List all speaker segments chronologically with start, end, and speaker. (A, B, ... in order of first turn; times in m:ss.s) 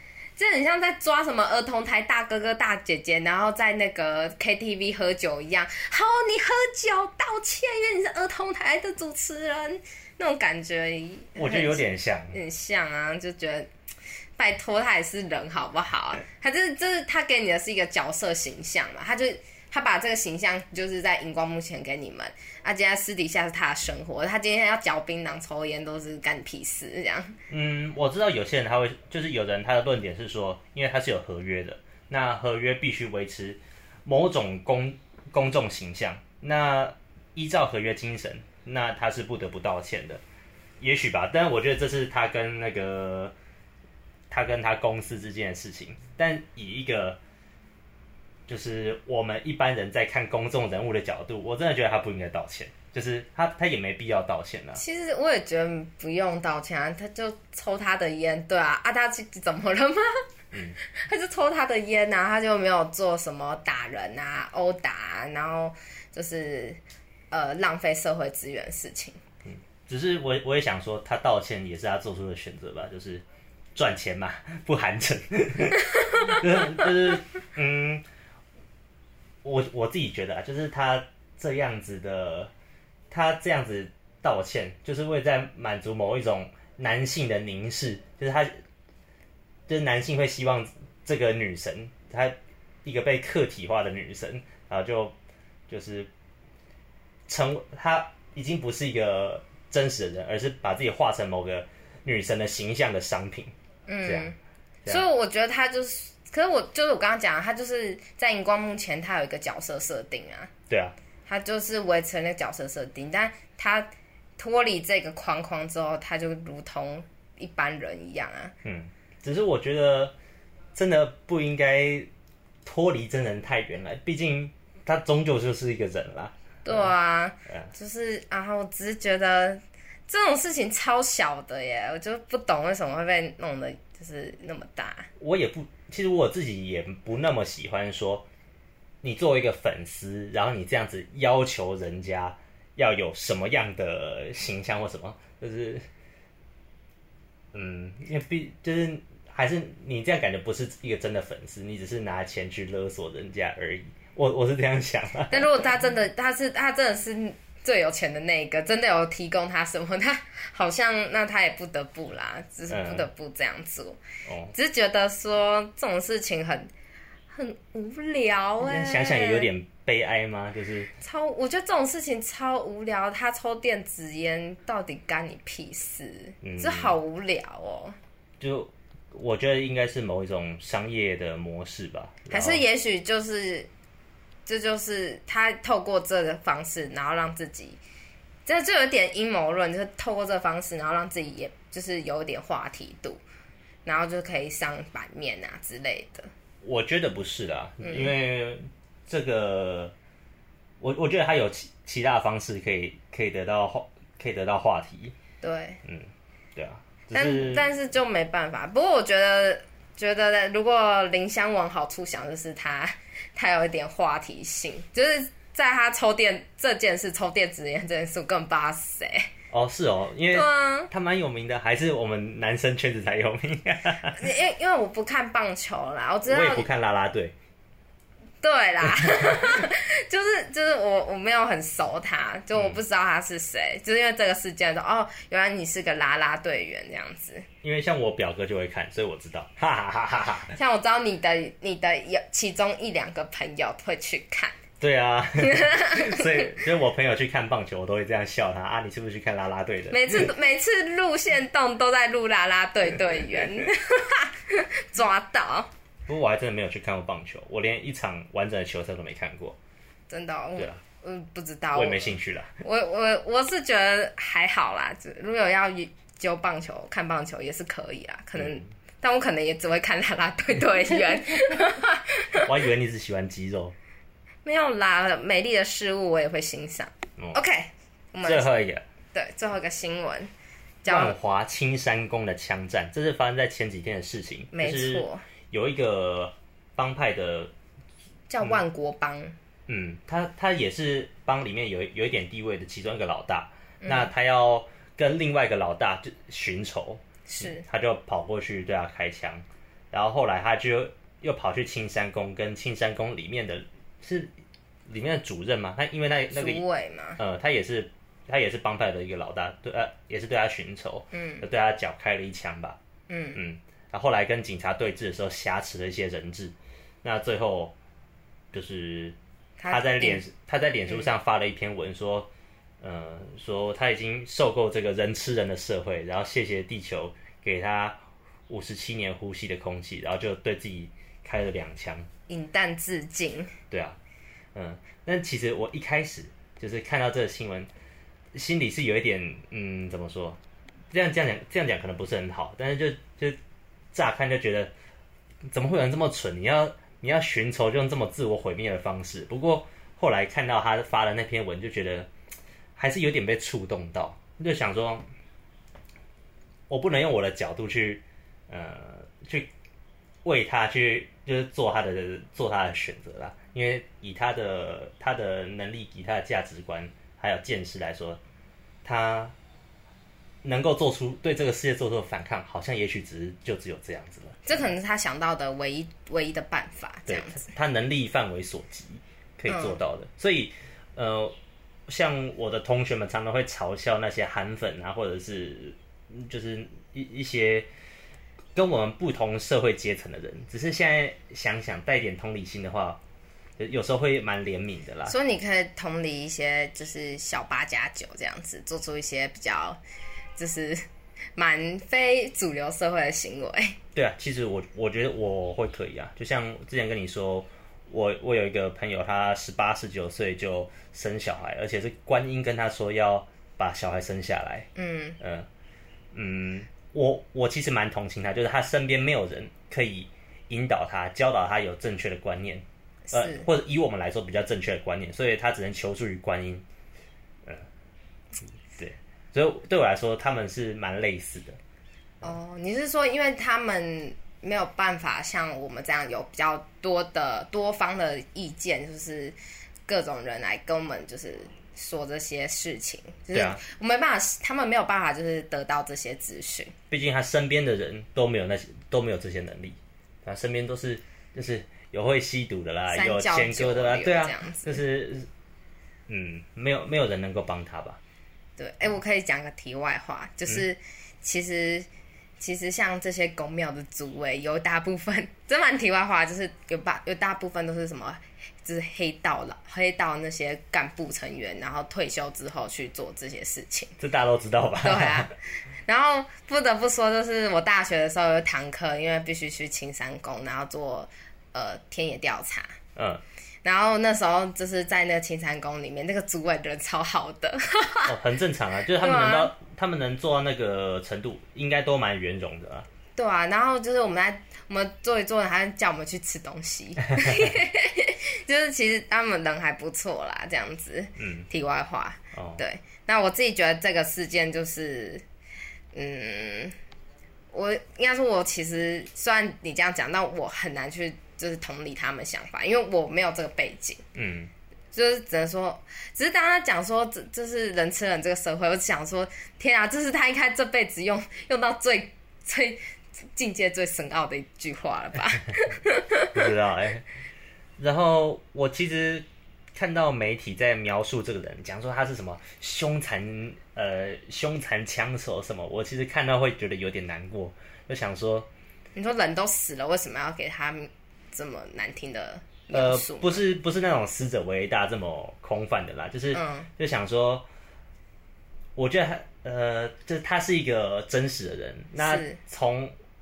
0:00.4-0:13.7 A
0:11.4-0:12.4 B
0:14.4-0:27.4 A
0:27.5-0:40.2 B
0:40.8-0:43.3 B
0:44.3-0:47.2 B
0:48.5-0:54.8 B
0:54.8-1:00.1 A
1:00.5-1:00.8 B
1:00.8-1:06.8 A
1:07.3-1:09.2 A
1:09.5-1:13.2 B
1:13.8-1:18.0 B
1:19.4-1:22.5 B
1:23.1-1:28.5 B
1:29.7-1:35.2 B
1:35.7-1:36.1 B
1:37.3-1:43.5 B
1:43.9-1:44.4 A
1:44.0-1:44.3 B
1:44.9-1:50.5 A
1:50.7-1:51.0 B
1:51.3-1:58.5 A
1:58.6-2:00.1 B
2:00.8-2:02.1 B
2:02.6-2:06.9 B
2:06.6-2:15.1 A
2:15.2-2:18.3 B
2:19.0-2:25.8 B
2:27.5-2:35.6 B
2:35.3-2:44.0 A
2:42.7-2:43.1 B
2:44.3-2:44.5 B
2:44.5-2:46.7 A
2:47.3-2:49.5 A
2:48.6-2:50.9 B
2:51.0-2:58.0 A
2:56.4-2:56.9 B
2:58.4-3:02.6 B
3:02.3-3:03.7 A
3:04.5-3:07.8 A
3:08.5-3:13.2 A
3:13.9-3:16.3 A
3:16.6-3:19.9 B
3:17.8-3:18.1 A
3:20.8-3:25.1 B
3:25.4-3:25.8 A
3:25.8-3:27.7 B
3:27.1-3:39.3 A
3:39.5-3:44.2 B
3:40.3-3:40.9 A
3:44.1-3:46.7 A
3:46.3-3:47.3 B
3:48.4-3:57.5 A
3:49.2-3:49.6 B
3:57.6-4:00.6 B
4:00.6-4:04.6 A
4:04.8-4:10.3 B
4:05.4-4:06.6 A
4:09.9-4:15.7 A
4:16.1-4:19.6 B
4:20.1-4:32.5 A
4:21.7-4:22.5 B
4:32.4-4:33.8 B
4:34.4-4:38.5 A
4:38.2-4:38.8 B
4:39.1-4:40.3 A
4:40.8-4:41.2 A
4:40.8-4:47.5 B
4:44.5-4:45.2 A
4:48.3-4:49.4 A
4:49.7-5:04.3 B
4:53.8-4:54.1 A
4:57.3-4:57.6 A
5:04.9-5:06.6 B
5:06.3-5:07.2 A
5:07.2-5:12.8 B
5:11.1-5:11.4 A
5:13.1-5:13.4 A
5:13.4-5:17.7 B
5:18.5-5:19.2 B
5:19.6-5:20.2 A
5:19.7-5:22.3 B
5:22.8-5:32.1 B
5:32.3-5:33.5 A
5:33.7-5:34.0 B
5:34.6-5:37.7 B
5:38.3-5:43.4 B
5:43.9-5:44.7 B
5:45.5-5:52.1 B
5:52.8-5:55.0 B
5:56.7-5:59.5 B
6:00.2-6:08.2 B
6:08.8-6:09.3 B
6:10.4-6:14.7 B
6:14.5-6:17.5 A
6:17.1-6:21.4 B
6:19.5-6:19.8 A
6:21.9-6:27.7 B
6:28.6-6:33.0 B
6:33.6-6:35.2 B
6:35.1-6:39.8 A
6:40.4-6:43.8 A
6:44.0-6:54.7 B
6:54.8-6:55.2 A
6:55.2-6:55.5 B
6:56.1-7:06.6 B
7:03.1-7:03.5 A
7:08.7-7:11.6 B
7:12.2-7:19.4 A
7:19.9-7:26.7 A
7:23.3-7:23.6 B
7:26.9-7:35.3 B
7:32.9-7:34.8 A
7:36.1-7:38.0 B
7:38.6-7:41.9 A
7:42.4-7:54.0 A
7:54.0-7:55.3 B
7:54.8-7:55.4 A
7:55.9-8:02.8 A
8:03.0-8:03.2 B
8:03.6-8:08.2 A
8:08.1-8:12.9 B
8:09.0-8:09.5 A
8:13.2-8:25.2 A
8:17.2-8:17.5 B
8:21.2-8:21.5 B
8:22.3-8:22.6 B
8:25.9-8:26.8 A
8:27.5-8:34.0 A
8:34.2-8:34.5 B
8:34.9-8:46.5 A
8:46.3-8:47.1 B
8:47.8-8:58.5 B
8:59.0-9:03.4 A
9:02.7-9:07.5 B
9:06.3-9:06.7 A
9:08.8-9:12.9 B
9:12.0-9:12.4 A